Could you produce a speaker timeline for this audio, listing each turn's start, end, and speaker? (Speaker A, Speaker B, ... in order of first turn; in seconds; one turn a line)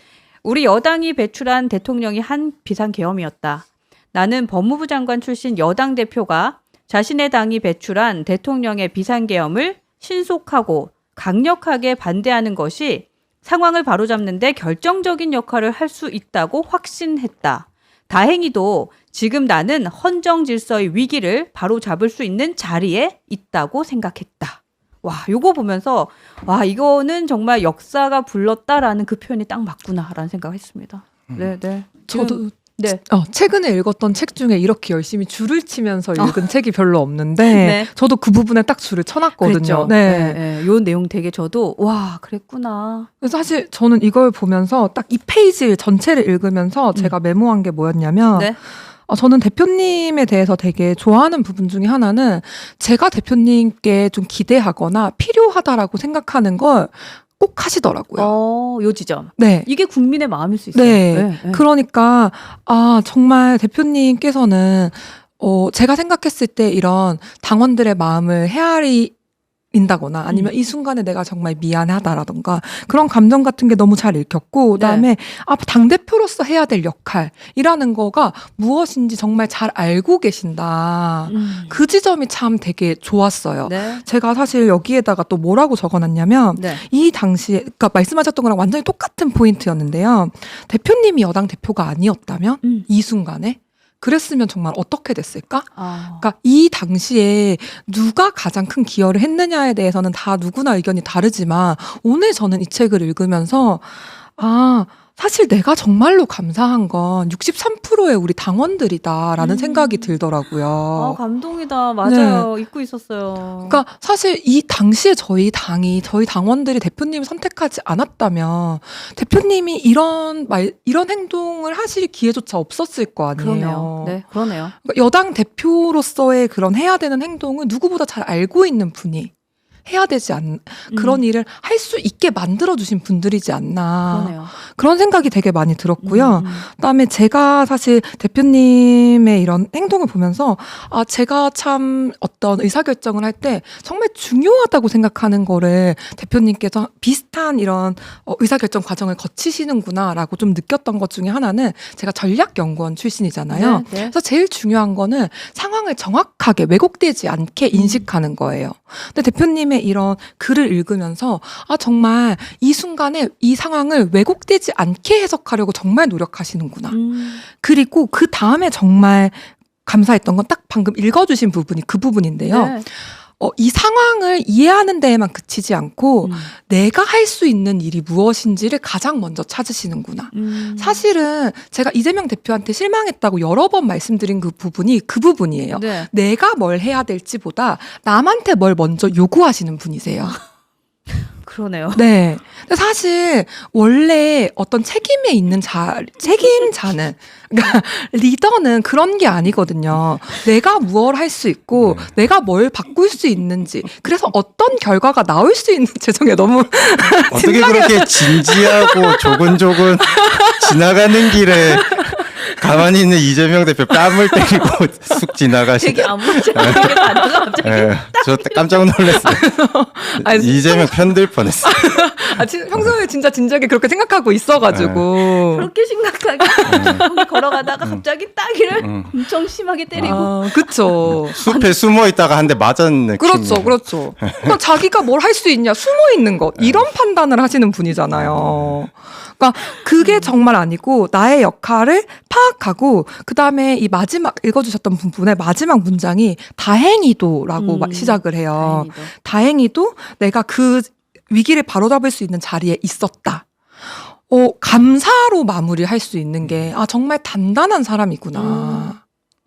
Speaker A: 0.4-33.0
Speaker B: 32.1-40.4
Speaker A: 36.1-36.5
Speaker A: 37.4-37.9
Speaker A: 39.4-43.1
Speaker B: 43.2-58.3
Speaker A: 58.1-61.6
Speaker B: 59.4-59.7
Speaker B: 60.7-69.1
Speaker B: 69.7-111.2
Speaker A: 70.3-70.5
Speaker A: 74.7-75.1
Speaker A: 81.3-81.8
Speaker A: 83.6-84.0
Speaker A: 86.5-86.8
Speaker A: 92.6-92.9
Speaker A: 95.8-96.3
Speaker A: 109.4-110.1
Speaker A: 110.9-113.8
Speaker B: 112.0-112.5
Speaker B: 113.6-129.3
Speaker A: 123.3-124.7
Speaker B: 129.8-190.4
Speaker A: 130.9-131.2
Speaker A: 134.0-134.5
Speaker A: 136.0-136.7
Speaker A: 153.5-154.1
Speaker A: 157.7-158.1
Speaker A: 166.9-167.4
Speaker A: 172.5-172.8
Speaker A: 176.2-176.5
Speaker A: 180.3-181.0
Speaker A: 185.7-186.1
Speaker A: 191.4-192.1
Speaker B: 191.9-212.8
Speaker C: 201.8-202.1
Speaker C: 207.3-216.9
Speaker B: 213.9-214.4
Speaker A: 215.8-218.9
Speaker B: 216.2-217.1
Speaker C: 217.6-219.6
Speaker B: 219.1-225.7
Speaker C: 220.1-221.9
Speaker C: 224.7-225.1
Speaker A: 225.2-231.9
Speaker B: 226.4-227.4
Speaker C: 226.7-227.0
Speaker C: 228.7-229.2
Speaker C: 229.9-230.3
Speaker B: 229.9-231.4
Speaker C: 231.0-234.6
Speaker B: 233.2-259.0
Speaker C: 236.6-236.9
Speaker C: 238.1-238.8
Speaker A: 240.0-240.3
Speaker A: 247.6-249.1
Speaker C: 256.4-256.7
Speaker A: 258.3-258.9